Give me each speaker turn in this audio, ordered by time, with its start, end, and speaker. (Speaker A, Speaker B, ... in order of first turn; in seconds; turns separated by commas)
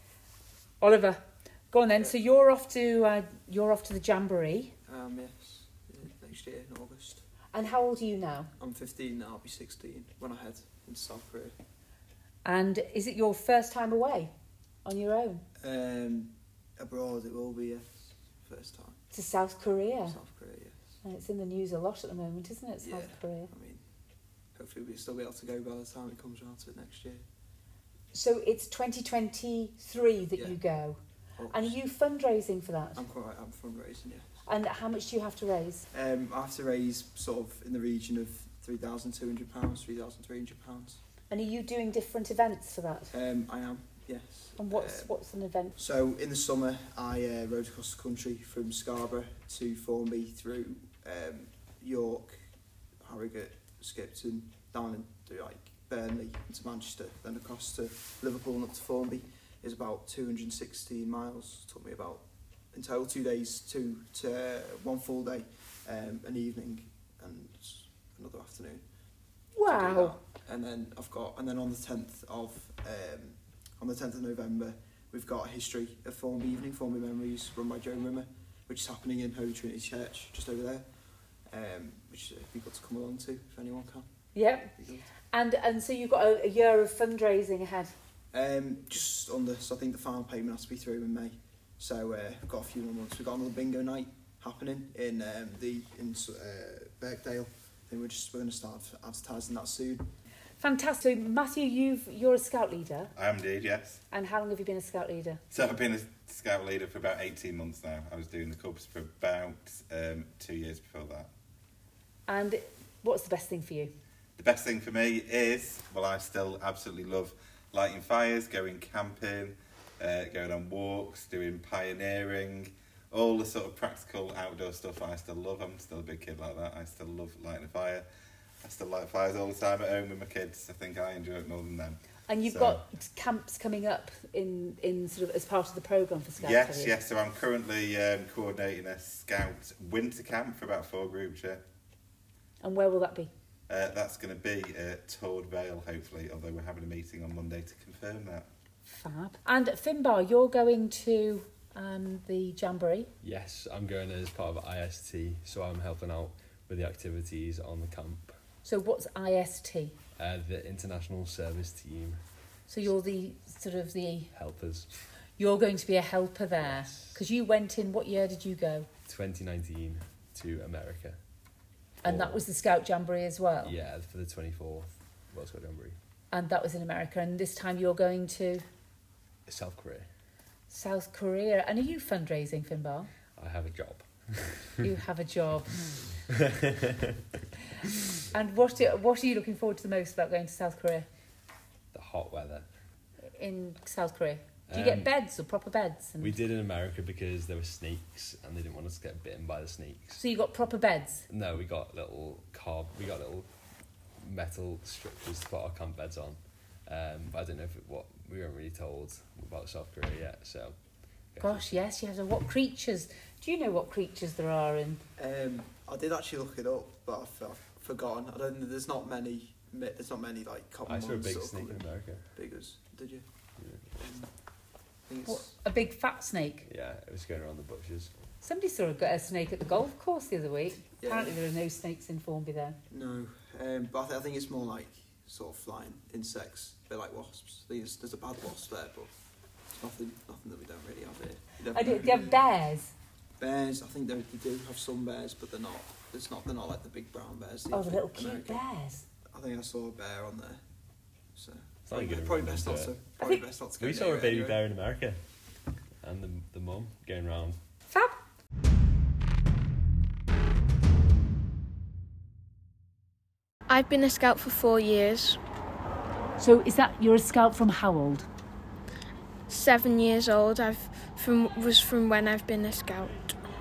Speaker A: 0.8-4.7, Speaker B: 4.9-7.2, Speaker A: 7.5-8.5, Speaker B: 8.6-11.6, Speaker A: 12.4-14.3, Speaker A: 14.8-15.4, Speaker B: 15.6-19.0, Speaker A: 19.1-20.1, Speaker B: 20.1-20.8, Speaker A: 21.0-23.5, Speaker B: 22.8-23.8, Speaker B: 24.5-27.2, Speaker A: 28.1-31.0, Speaker B: 30.3-30.6, Speaker B: 31.4-31.8, Speaker A: 31.5-33.0, Speaker B: 32.9-34.2, Speaker A: 34.5-35.8, Speaker B: 35.9-41.0, Speaker A: 41.3-43.1, Speaker B: 43.1-45.2, Speaker A: 44.6-45.7, Speaker B: 45.7-52.4, Speaker B: 53.0-68.8, Speaker A: 69.5-70.2, Speaker B: 69.6-80.8, Speaker B: 81.5-84.1, Speaker A: 84.3-84.7, Speaker B: 84.8-85.1, Speaker A: 85.3-87.9, Speaker B: 88.3-100.1, Speaker A: 100.6-103.1, Speaker C: 103.1-104.0, Speaker A: 104.1-105.4, Speaker C: 105.5-111.3, Speaker A: 112.3-113.9, Speaker C: 114.4-128.1, Speaker C: 128.6-132.8, Speaker A: 132.3-136.9, Speaker C: 136.4-141.6, Speaker A: 142.6-143.3, Speaker C: 143.7-148.5, Speaker A: 148.8-153.1, Speaker D: 153.2-158.3, Speaker A: 158.6-160.0, Speaker D: 160.2-162.2, Speaker A: 162.7-164.3, Speaker D: 164.3-164.9, Speaker A: 165.4-168.9, Speaker D: 166.6-167.2, Speaker D: 169.1-171.2, Speaker D: 172.0-172.4, Speaker A: 172.0-173.8, Speaker D: 173.6-175.9, Speaker A: 176.3-178.6, Speaker D: 179.5-180.1, Speaker A: 180.7-183.1, Speaker D: 183.4-184.7, Speaker A: 184.8-185.8, Speaker A: 188.3-191.1, Speaker D: 191.9-192.7, Speaker A: 193.3-196.4, Speaker D: 194.7-195.1, Speaker D: 196.2-200.2, Speaker A: 200.2-201.2, Speaker D: 201.3-203.5, Speaker D: 204.2-210.8, Speaker D: 211.3-211.8, Speaker A: 211.4-215.0, Speaker B: 215.2-223.2, Speaker D: 220.8-222.3, Speaker D: 223.6-224.0, Speaker B: 224.0-224.3, Speaker B: 225.1-225.5, Speaker A: 225.3-226.7, Speaker D: 226.7-228.1, Speaker A: 228.4-232.8, Speaker B: 231.0-231.4, Speaker B: 232.9-239.1, Speaker B: 239.7-242.5, Speaker A: 241.7-242.9, Speaker B: 243.4-248.6, Speaker A: 247.7-249.0, Speaker B: 249.3-250.6, Speaker B: 251.3-254.7, Speaker D: 251.8-252.9, Speaker D: 253.8-255.2, Speaker D: 256.0-257.6, Speaker E: 263.7-265.4, Speaker A: 266.4-268.3, Speaker E: 269.5-273.3